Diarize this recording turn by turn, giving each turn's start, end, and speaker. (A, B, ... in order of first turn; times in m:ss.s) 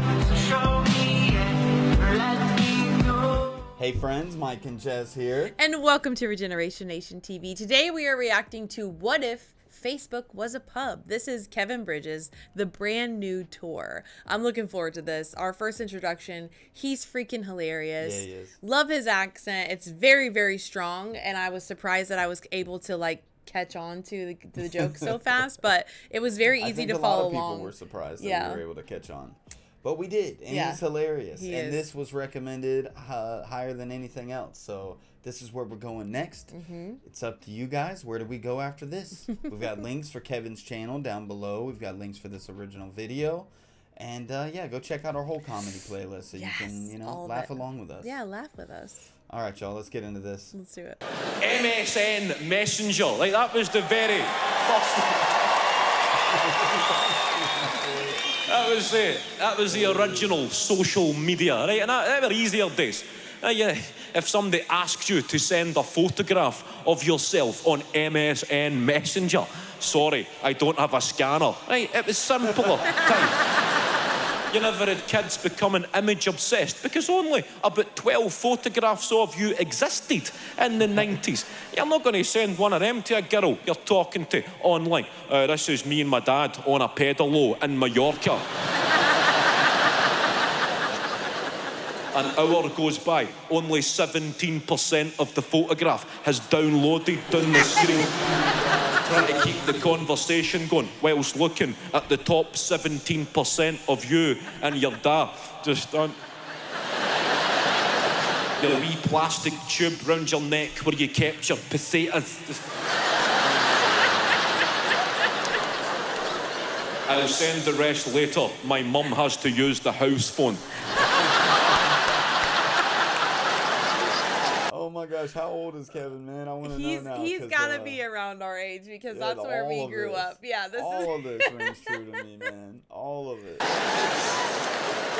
0:00.2-0:01.2 A
0:02.1-0:03.0 A
0:03.8-0:05.5 B
0:05.6-0:28.6 A
0:18.0-0:18.6 B
0:24.6-0:25.4 B
0:26.6-0:48.2 B
0:30.5-0:31.9 A
0:36.5-0:37.0 A
0:46.4-0:49.1 A
0:49.3-0:50.6 B
0:50.5-0:51.0 A
0:51.4-0:55.3 C
0:56.3-0:58.4 B
0:58.5-1:13.4 C
0:59.7-1:00.4 B
1:14.5-1:28.5 C
1:32.1-1:38.2 C
1:37.6-1:40.0 B
1:39.0-1:46.2 C
1:48.6-1:52.6 C
1:57.1-2:00.6 C
2:04.7-2:08.0 B
2:06.6-2:12.0 A
2:09.1-2:13.7 B